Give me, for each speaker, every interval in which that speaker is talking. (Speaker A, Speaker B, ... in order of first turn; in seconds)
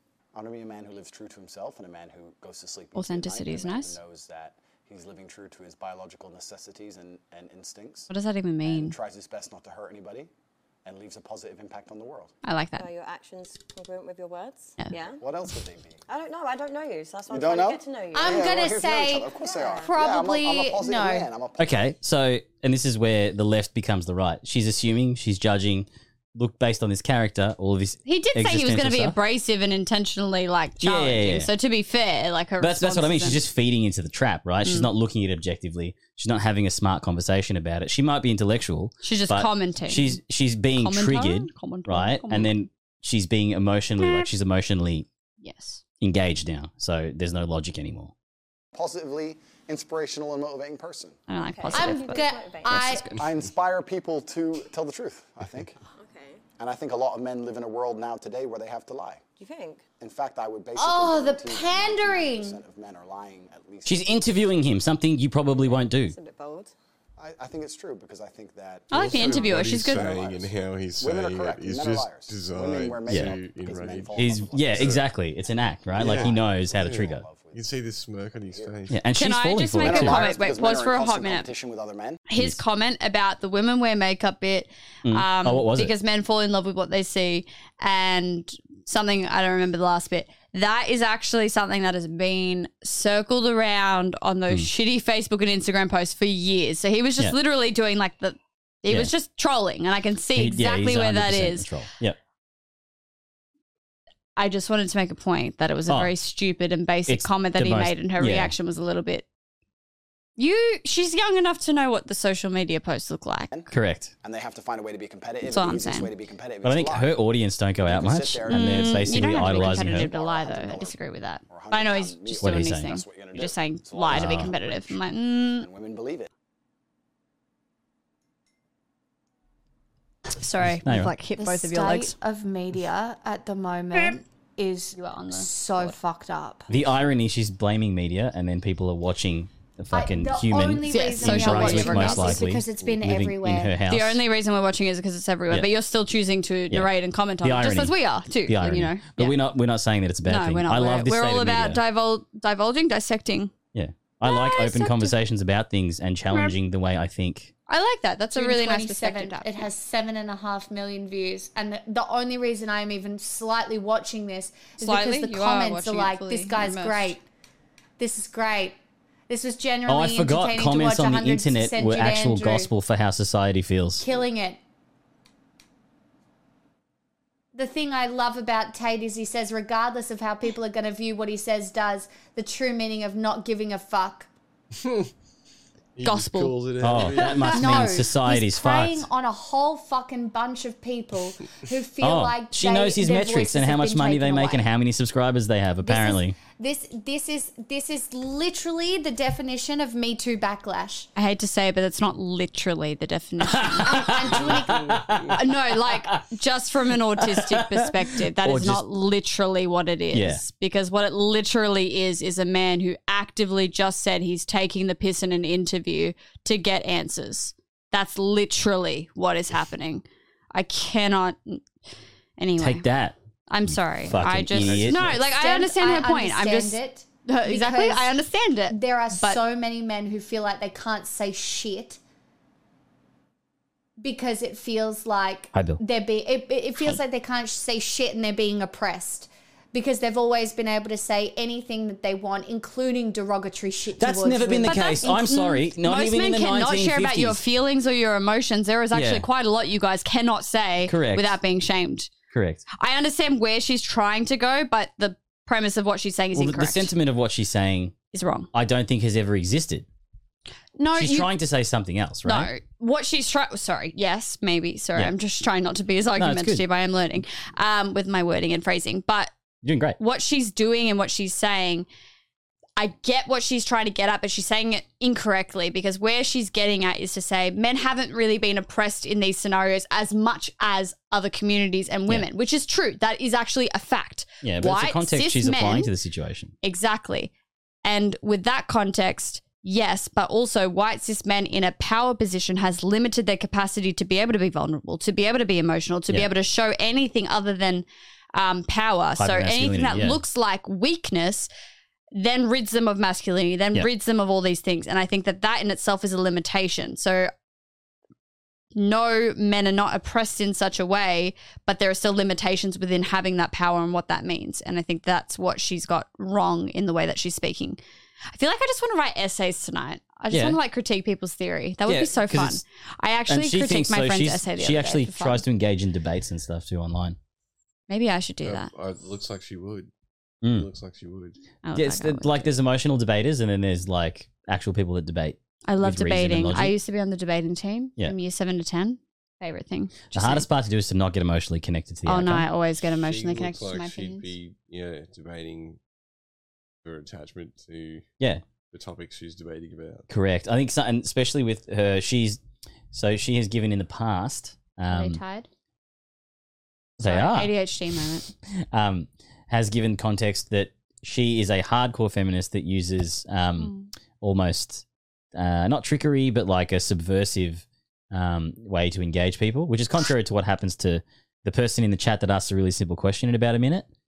Speaker A: 0.3-8.1, 8.6-10.3, 10.8-12.3, 15.2-16.0, 17.3-21.7, 48.7-51.2, 53.1-55.7, 56.6-59.2, 60.0-64.1, 67.2-75.0, 75.9-77.7, 78.5-78.7, 79.8-82.2, 114.2-117.2, 117.8-121.0, 121.5-126.3
Speaker B: 2.9-4.0, 8.1-8.9, 12.4-12.8, 28.1-33.4, 39.0-40.2, 40.7-42.6, 45.4-45.8, 51.3-53.1, 68.9-70.0, 79.2-81.5, 82.3-101.7, 104.3-109.2, 110.4-113.5, 115.4-116.1, 118.5-125.7, 130.4-132.1, 134.9-135.9, 140.8-142.4, 143.9-149.3, 150.2-153.5, 154.2-155.2, 157.7-159.6, 164.8-167.2, 186.0-186.5, 201.2-204.2, 205.3-221.6, 222.4-222.8, 223.5-229.4, 244.6-252.1, 252.7-256.9, 258.1-258.5, 260.8-261.3, 262.2-269.3, 270.0-271.9, 272.8-285.9, 286.6-287.3, 287.8-301.5, 302.1-307.3, 308.7-317.8, 318.3-325.4, 327.9-328.7, 331.6-332.5, 335.7-340.4, 342.1-344.3, 354.9-355.5, 357.0-358.3, 363.6-363.9
Speaker C: 12.8-15.2, 16.1-18.7, 19.3-19.9, 51.4-52.9, 55.9-56.4, 59.4-59.9, 65.5-66.7
Speaker D: 18.1-19.3, 19.8-21.3, 51.7-53.2, 60.8-62.6, 131.3-136.7, 139.9-143.8, 158.3-167.2, 168.0-168.8, 169.3-172.7, 174.0-174.6, 177.5-184.3, 187.5-194.7, 195.8-201.1, 203.8-205.0, 225.1-228.1, 228.7-232.0, 234.0-245.1
Speaker E: 21.6-29.2, 30.8-31.5, 32.6-45.0, 46.0-48.1, 63.8-66.1, 73.1-73.3, 74.2-77.1, 78.9-80.3, 85.0-85.9, 100.3-102.2, 107.1-108.5, 113.7-114.1, 116.6-120.1, 122.4-122.9, 124.1-124.5, 130.8-131.1, 136.7-144.2, 147.4-151.8, 153.7-157.5, 169.9-174.0, 186.8-189.0, 192.0-196.3, 203.5-206.2, 207.2-208.8, 210.1-210.4, 222.6-223.1, 223.7-225.1, 235.5-235.8, 244.0-247.4, 248.9-249.2, 250.9-251.3, 252.3-252.6, 256.3-257.9, 258.5-259.9, 260.9-262.5, 266.2-266.6, 269.6-270.0, 284.4-286.5, 299.2-300.2, 320.3-320.6, 321.9-322.6, 323.3-327.2, 330.4-330.7, 331.7-336.7, 340.1-342.5, 350.1-352.4, 352.9-355.2, 357.0-357.5, 358.7-364.8, 365.3-373.9
Speaker F: 68.9-75.0, 76.0-79.0, 184.8-185.1, 185.9-187.9, 204.3-205.3, 224.6-225.2, 328.4-329.9, 330.5-331.4, 342.9-345.8, 346.8-348.1, 348.7-350.1